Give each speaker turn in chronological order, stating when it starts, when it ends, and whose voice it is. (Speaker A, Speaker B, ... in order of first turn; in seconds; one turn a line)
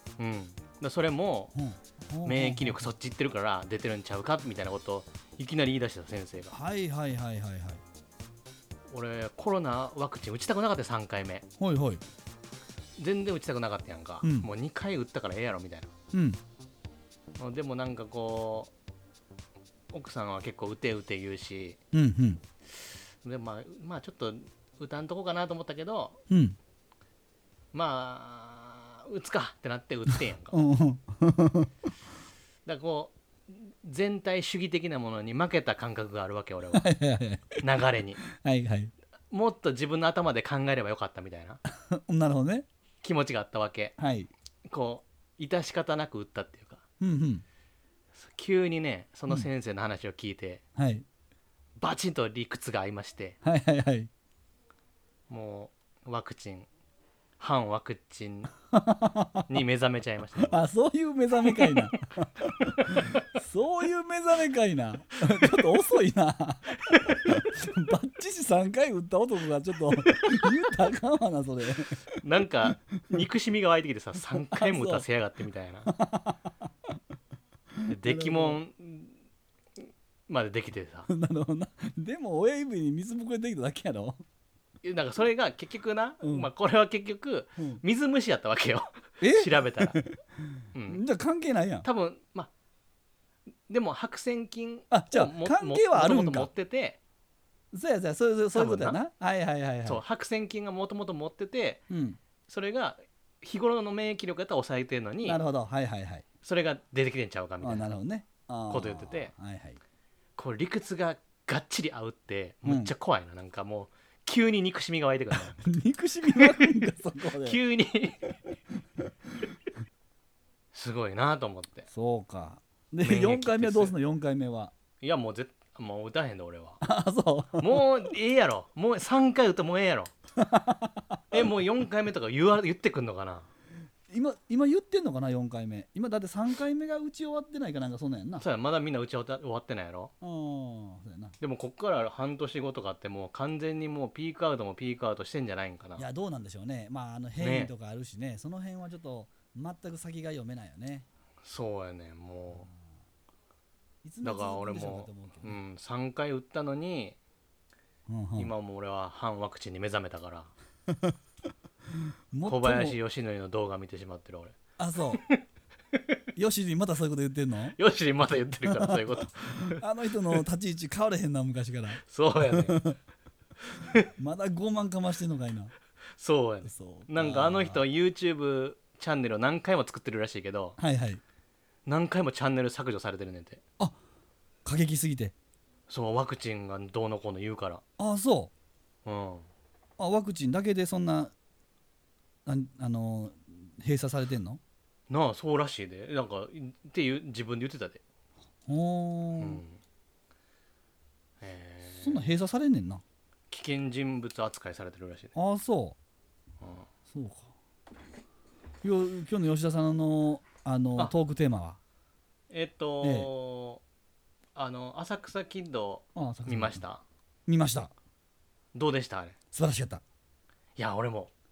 Speaker A: 0.2-1.5
Speaker B: 1.5-2.9
Speaker A: 2.2-6.6
Speaker B: 6.5-7.8
Speaker A: 8.9-11.4
Speaker B: 11.6-12.0
Speaker A: 13.0-15.9
Speaker B: 14.2-14.5
Speaker B: 16.1-16.4
Speaker A: 17.4-18.7
Speaker A: 19.9-21.8
Speaker B: 21.9-22.4
Speaker A: 22.8-26.2
Speaker B: 26.3-26.6
Speaker A: 27.7-30.6
Speaker B: 30.1-31.7
Speaker A: 32.6-36.9
Speaker B: 36.7-37.6
Speaker A: 37.6-38.2
Speaker B: 38.2-38.9
Speaker A: 39.3-41.6
Speaker B: 41.6-42.6
Speaker A: 43.0-43.9
Speaker B: 44.0-44.3
Speaker A: 44.7-46.8
Speaker B: 47.0-47.4
Speaker A: 48.1-50.6
Speaker B: 50.8-51.0
Speaker A: 51.8-53.4
Speaker B: 53.4-54.1
Speaker A: 55.3-56.7
Speaker A: 57.4-58.5
Speaker B: 58.7-59.5
Speaker A: 59.5-60.6
Speaker B: 60.4-72.0
Speaker A: 61.4-61.9
Speaker A: 72.2-75.9
Speaker B: 74.3-75.0
Speaker B: 75.9-76.7
Speaker B: 77.8-78.6
Speaker A: 77.9-79.2
Speaker A: 80.3-81.1
Speaker B: 81.1-84.2
Speaker A: 84.8-90.0
Speaker B: 86.2-86.5
Speaker B: 89.2-91.9
Speaker A: 90.7-91.0
Speaker A: 91.8-92.5
Speaker A: 93.7-97.0
Speaker B: 94.9-96.5
Speaker B: 97.7-100.0
Speaker A: 98.5-99.0
Speaker A: 99.8-101.8
Speaker B: 101.9-102.2
Speaker A: 102.5-105.4
Speaker B: 105.2-106.2
Speaker A: 106.4-107.9
Speaker B: 107.6-109.8
Speaker A: 108.7-109.3
Speaker A: 110.3-115.6
Speaker B: 112.6-112.9
Speaker B: 115.3-117.6
Speaker A: 116.3-116.8
Speaker A: 117.4-118.4
Speaker A: 120.7-121.9
Speaker B: 121.9-124.7
Speaker A: 123.0-123.9
Speaker A: 125.0-126.8
Speaker B: 126.8-127.8
Speaker A: 127.6-130.1
Speaker B: 130.4-131.2
Speaker A: 131.3-133.5
Speaker B: 134.1-138.4
Speaker A: 138.4-140.1
Speaker B: 140.2-141.3
Speaker A: 141.4-146.0
Speaker B: 146.0-151.1
Speaker A: 147.4-147.7
Speaker A: 151.4-152.7
Speaker B: 154.0-155.6
Speaker A: 154.2-157.2
Speaker B: 158.1-158.5
Speaker A: 158.3-160.5
Speaker B: 160.9-161.2
Speaker B: 162.3-162.9
Speaker A: 162.4-164.6
Speaker B: 164.8-165.2
Speaker A: 165.1-165.4
Speaker B: 166.3-167.8
Speaker A: 167.8-170.4
Speaker B: 168.7-172.9
Speaker A: 172.0-172.8
Speaker B: 174.2-175.7
Speaker A: 176.2-180.8
Speaker B: 176.6-177.8
Speaker B: 180.8-181.2
Speaker A: 181.8-183.6
Speaker B: 184.6-185.3
Speaker A: 185.9-187.8
Speaker B: 188.0-188.5
Speaker A: 189.0-189.5
Speaker B: 190.0-191.3
Speaker B: 192.4-194.6
Speaker A: 195.1-198.0
Speaker B: 198.7-199.6
Speaker A: 199.4-199.8
Speaker A: 201.4-202.3
Speaker B: 202.0-203.0
Speaker A: 203.5-205.3
Speaker B: 205.3-206.0
Speaker A: 206.6-206.9
Speaker B: 207.1-207.5
Speaker B: 208.8-211.8
Speaker A: 212.5-213.8
Speaker B: 213.0-213.3
Speaker A: 214.6-217.0
Speaker B: 216.1-216.8
Speaker B: 217.5-217.9
Speaker A: 218.7-219.3
Speaker B: 219.5-220.0
Speaker A: 220.8-221.3